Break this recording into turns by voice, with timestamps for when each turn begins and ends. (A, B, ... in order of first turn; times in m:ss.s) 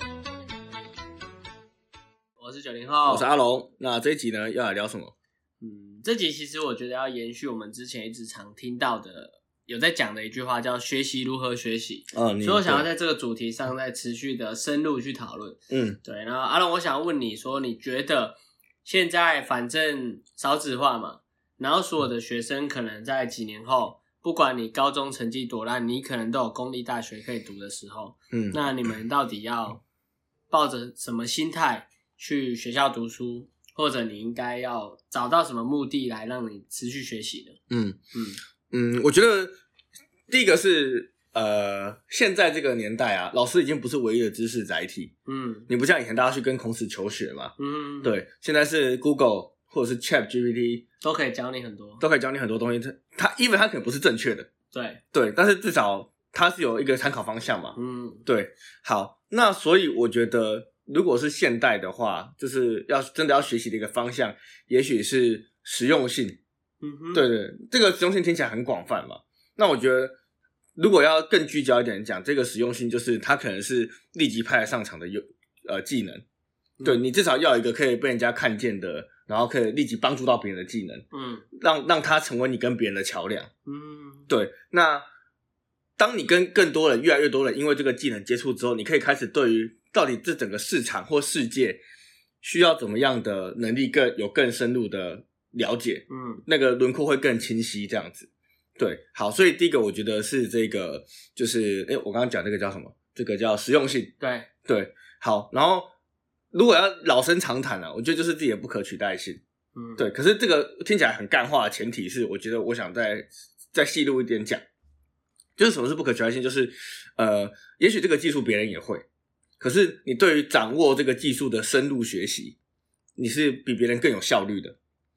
0:02.4-0:03.3 A
0:03.1-0:05.1 B
0:05.6-0:29.8 A
0:12.1-0:12.8 B
0:15.7-0:16.0 B
0:28.3-0:28.6 B
0:30.5-0:37.6 A
0:37.7-0:38.0 B
0:38.1-0:38.4 A
0:38.7-0:39.6 B
0:40.3-0:45.1 B
0:45.3-0:45.7 A
0:45.7-0:50.8 B
0:47.6-0:48.2 A
0:51.0-0:52.0 A
0:52.0-0:54.5 B
0:54.7-0:55.0 A
0:55.1-1:06.4 B
0:57.8-0:58.2 A
1:06.8-1:07.2 A
1:07.1-1:10.1 B
1:10.8-1:16.2 B
1:16.8-1:21.0 B
1:21.1-1:21.4 A
1:21.6-1:23.5 B
1:23.6-1:24.3 A
1:24.3-1:25.0 B
1:26.0-1:31.8 B
1:32.4-1:44.1 B
1:36.1-1:36.4 A
1:44.2-1:44.5 A
1:44.6-1:45.9 B
1:46.5-1:49.4 B
1:49.7-1:50.0 A
1:50.0-1:54.6 B
1:55.6-1:59.0 B
1:59.6-2:02.6 B
2:03.2-2:04.8 B